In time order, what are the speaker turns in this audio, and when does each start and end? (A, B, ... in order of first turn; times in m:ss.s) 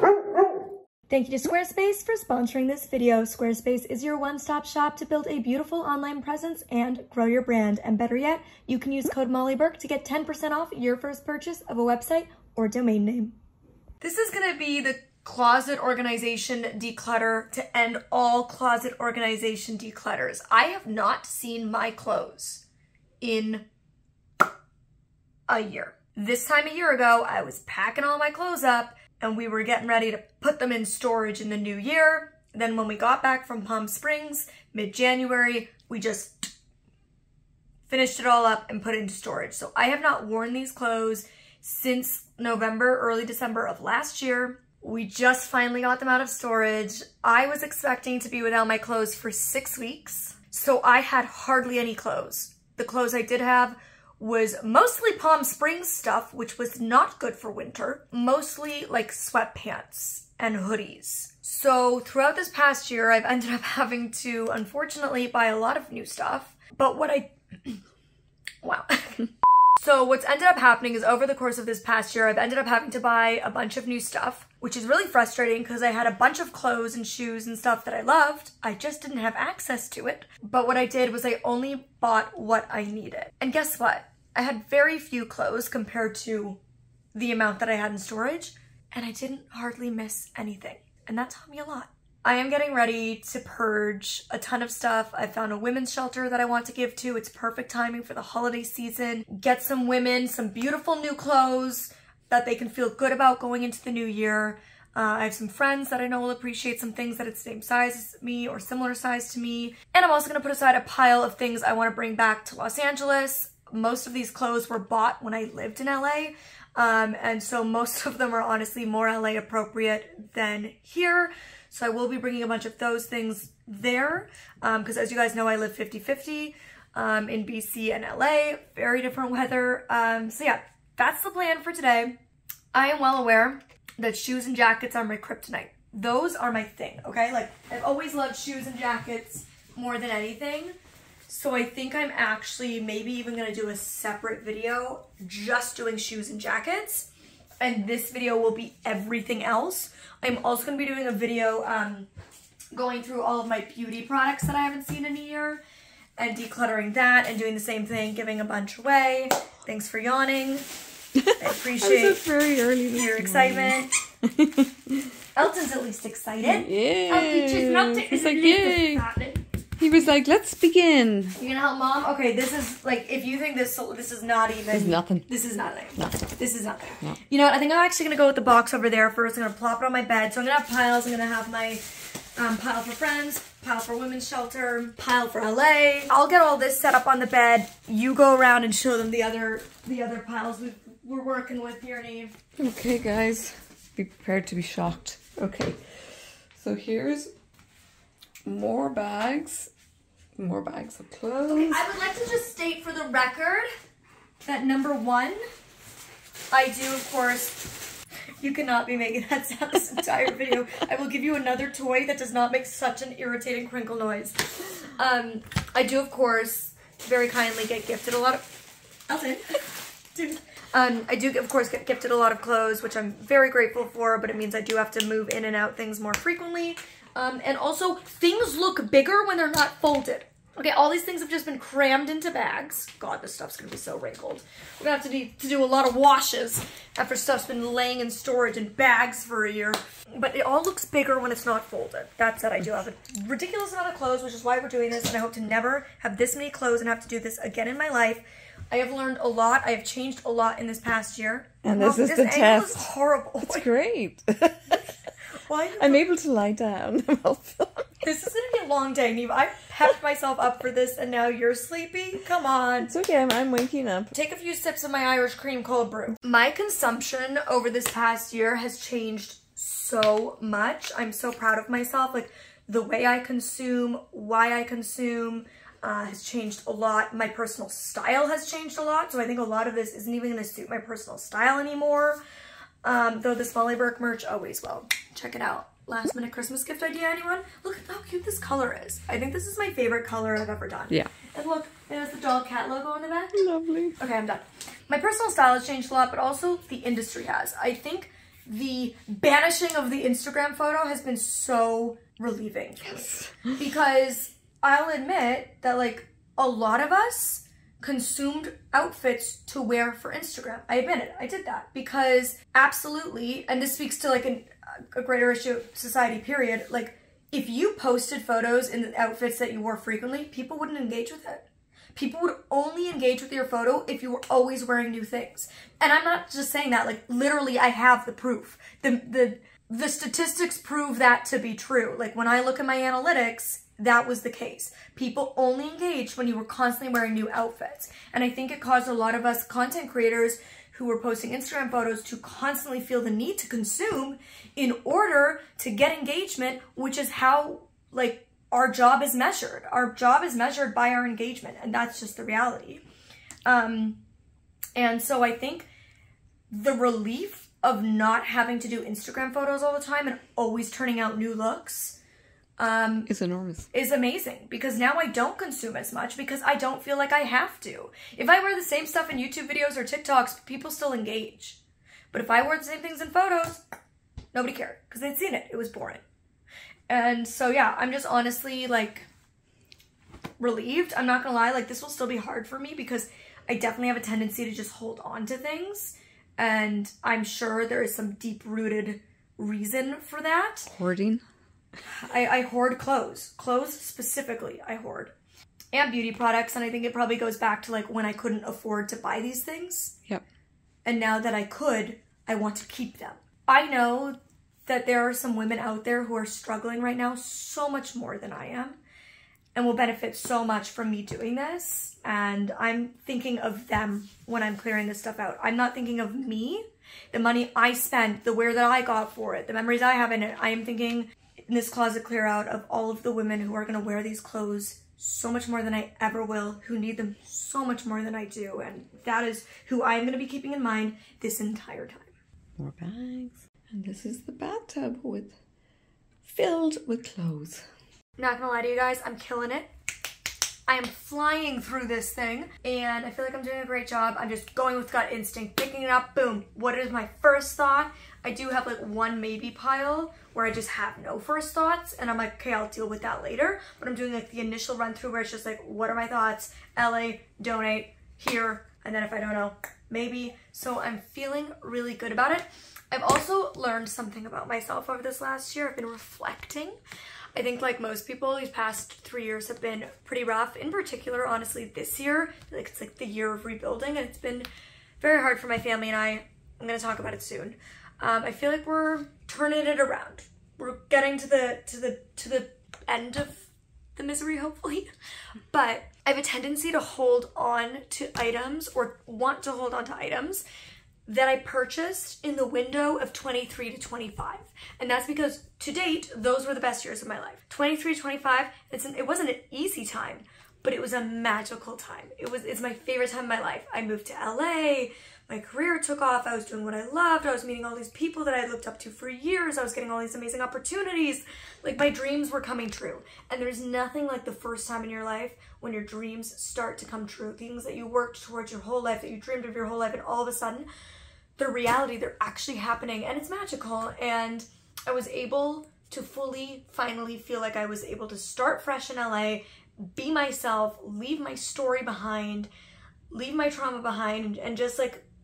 0:01.1-0:13.4 A
0:14.0-0:22.6 A
0:23.2-0:23.6 A
0:25.5-0:36.5 A
0:37.9-1:07.8 A
1:08.6-1:26.6 A
1:27.1-2:12.2 A
2:12.7-2:20.8 A
2:21.3-2:27.1 A
2:27.6-2:32.1 A
2:32.7-2:35.6 A
2:36.2-2:40.6 A
2:41.2-2:45.1 B
2:41.4-2:42.2 A
2:42.9-2:44.0 A
2:45.4-2:49.4 A
2:46.4-2:49.1 B
2:49.8-2:51.4 B
2:51.4-3:01.8 A
2:54.7-2:55.3 B
3:02.4-3:12.4 A
3:12.6-3:16.0 B
3:16.5-3:17.3 B
3:18.4-3:19.7 B
3:20.4-3:21.8 B
3:21.5-3:23.7 A
3:24.4-3:25.4 A
3:26.5-3:27.7 A
3:28.4-3:39.6 A
3:40.1-4:13.7 A
4:11.6-4:12.8 B
4:13.4-4:14.9 B
4:15.4-4:16.1 A
4:15.8-4:17.9 B
4:18.0-4:22.9 A
4:22.8-4:24.1 B
4:24.1-4:42.2 A
4:42.8-4:53.5 A
4:53.3-4:54.0 B
4:54.0-5:52.8 A
5:02.9-5:03.5 B
5:53.5-5:54.0 A
5:54.8-5:55.7 A
5:56.5-6:02.0 A
6:02.6-6:03.1 A
6:03.1-6:03.7 B
6:03.7-6:11.6 A
6:12.1-6:13.6 A
6:14.3-6:16.0 A
6:16.9-6:19.1 A
6:20.4-6:30.7 A
6:30.7-6:31.2 B
6:31.8-6:35.1 A
6:35.7-6:40.0 A
6:40.8-6:48.8 A
6:49.6-7:12.1 A
7:12.6-7:15.4 B
7:16.2-7:17.6 B
7:18.2-7:19.7 A
7:20.7-7:46.8 A
7:47.4-7:54.5 A
7:55.0-8:04.9 A
8:05.5-8:10.4 A
8:11.1-8:40.7 A
8:41.4-8:52.5 A
8:53.1-8:55.0 A